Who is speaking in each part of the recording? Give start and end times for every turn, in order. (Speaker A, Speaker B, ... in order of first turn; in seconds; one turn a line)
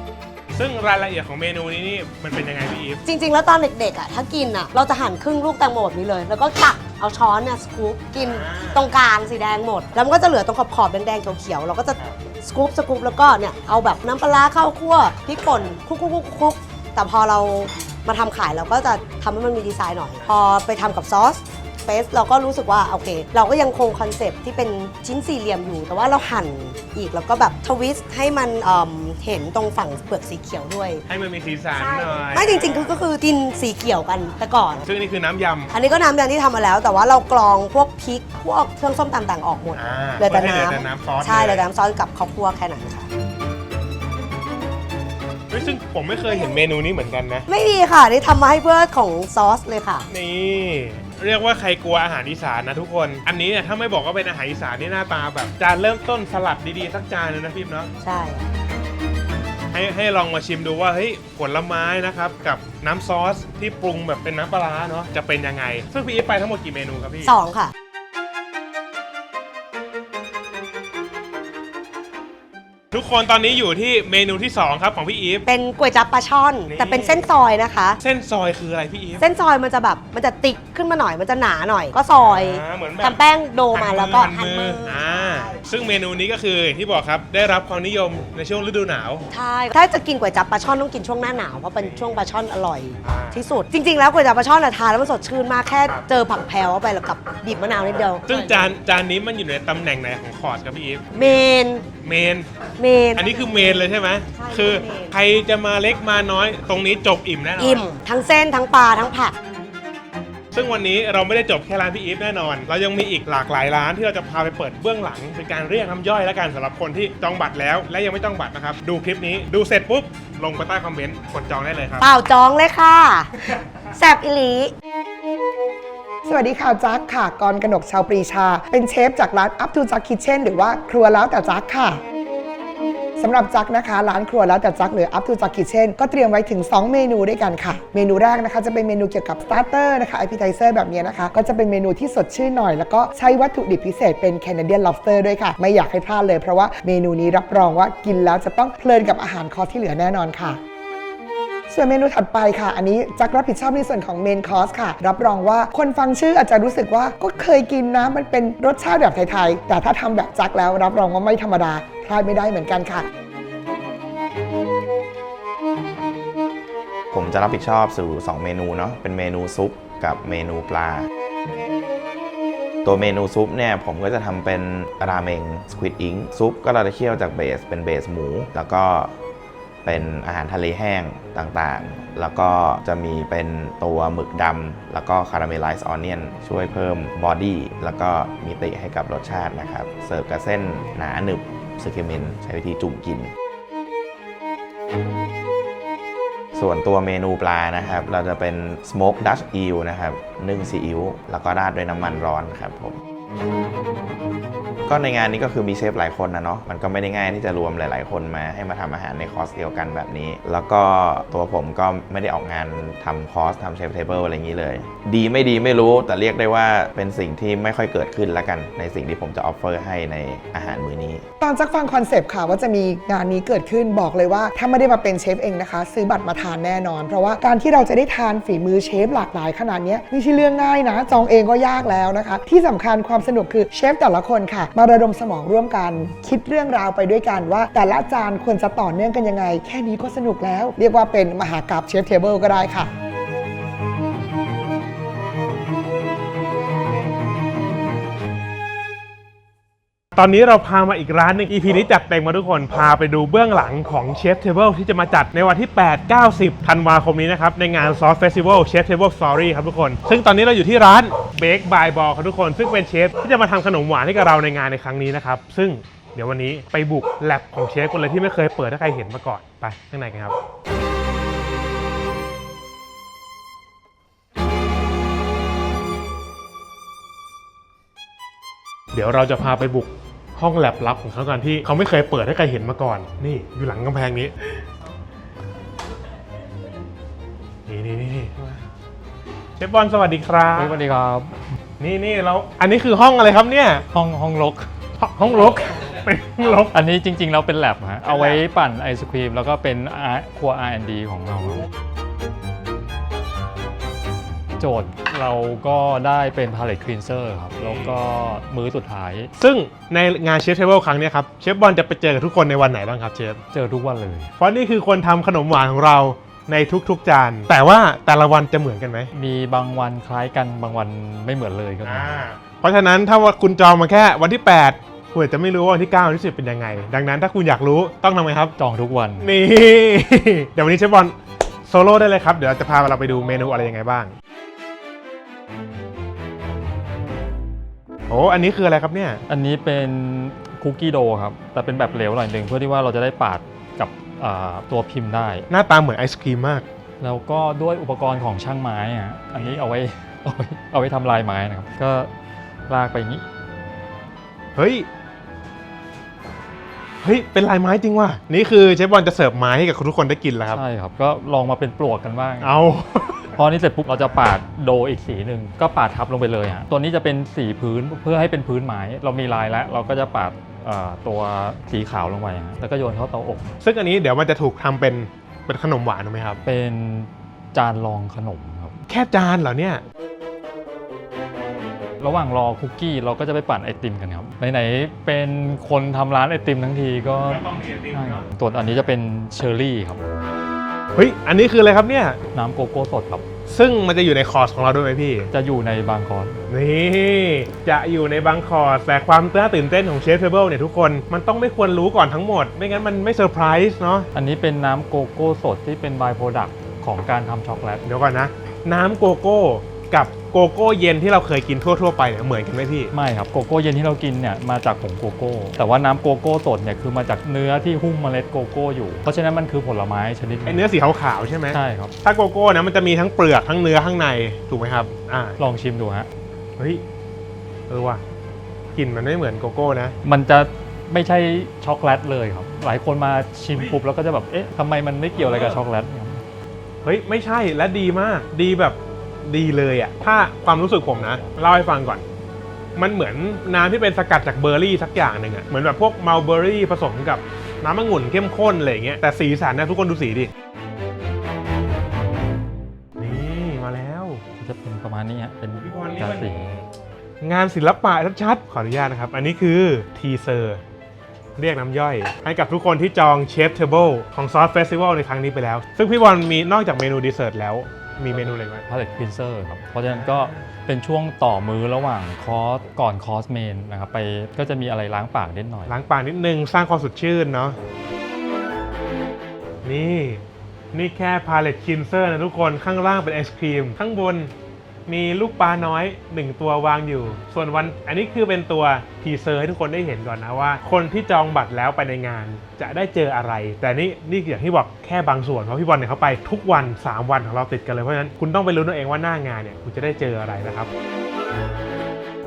Speaker A: 0.5-3.0
Speaker B: 3.1-31.0
Speaker A: 8.2-8.8
Speaker A: 31.1-32.9
Speaker B: 31.7-34.8
Speaker A: 34.8-35.7
Speaker B: 35.7-43.1
Speaker A: 39.7-41.7
Speaker A: 45.5-47.5
Speaker B: 47.5-50.1
Speaker A: 50.1-57.9
Speaker B: 58.0-58.5
Speaker A: 59.7-67.3
Speaker B: 67.2-67.7
Speaker A: 72.9-75.5
Speaker B: 75.5-78.0
Speaker A: 76.7-77.2
Speaker A: 78.0-79.2
Speaker B: 79.2-85.5
Speaker A: 82.1-83.2
Speaker A: 83.7-89.2
Speaker B: 89.3-98.6
Speaker A: 91.8-92.2
Speaker A: 93.0-93.4
Speaker A: 98.2-101.3
Speaker B: 101.1-101.8
Speaker A: 102.0-102.5
Speaker B: 102.8-105.1
Speaker A: 103.2-107.8
Speaker B: 107.6-109.3
Speaker A: 110.5-122.1
Speaker B: 122.0-124.7
Speaker C: 126.3-132.0
Speaker C: 133.2-150.6
Speaker C: 151.7-163.1
Speaker D: 167.1-171.1
Speaker D: 172.8-179.1
Speaker D: 179.8-193.3
Speaker D: 196.5-203.0
Speaker D: 204.8-221.2
Speaker C: 221.4-242.9
Speaker A: 250.2-270.4
Speaker A: 278.9-284.5
Speaker A: 287.7-288.6
Speaker A: 289.6-290.8
Speaker E: 290.5-291.3
Speaker A: 291.8-293.8
Speaker E: 293.9-294.7
Speaker A: 295.0-296.7
Speaker E: 296.7-301.6
Speaker A: 298.0-298.4
Speaker E: 304.6-309.3
Speaker A: 307.6-307.9
Speaker A: 309.4-313.4
Speaker E: 313.5-314.3
Speaker A: 314.4-319.1
Speaker E: 319.1-322.2
Speaker A: 321.9-328.5
Speaker E: 328.6-329.4
Speaker A: 329.2-331.1
Speaker A: 331.7-334.1
Speaker A: 338.1-339.2
Speaker E: 339.3-345.5
Speaker A: 345.5-346.6
Speaker E: 347.0-352.1
Speaker A: 349.4-349.6
Speaker E: 352.7-353.2
Speaker A: 354.6-354.9
Speaker A: 357.0-360.6
Speaker E: 360.5-362.5
Speaker A: 362.4-363.3
Speaker E: 363.4-373.5
Speaker A: 373.6-376.4
Speaker E: 376.4-378.8
Speaker A: 378.9-379.8
Speaker E: 382.0-390.0
Speaker A: 387.3-388.2
Speaker A: 390.9-392.2
Speaker E: 392.3-393.2
Speaker A: 393.5-395.3
Speaker E: 395.3-396.4
Speaker A: 396.5-404.1
Speaker E: 404.1-407.8
Speaker A: 407.9-412.9
Speaker E: 412.9-420.6
Speaker A: 420.5-425.4
Speaker E: 421.5-421.9
Speaker E: 425.4-426.1
Speaker A: 426.6-426.8
Speaker A: 427.7-428.0
Speaker A: 428.8-430.0
Speaker E: 430.1-436.2
Speaker A: 435.2-435.6
Speaker A: 436.8-442.0
Speaker A: 442.8-450.3
Speaker A: 453.0-454.2
Speaker E: 454.4-456.6
Speaker A: 455.6-456.3
Speaker A: 457.2-460.6
Speaker A: 461.4-468.6
Speaker E: 468.7-475.7
Speaker A: 469.9-470.5
Speaker A: 475.7-477.6
Speaker A: 479.6-480.2
Speaker A: 480.7-484.3
Speaker A: 484.9-500.7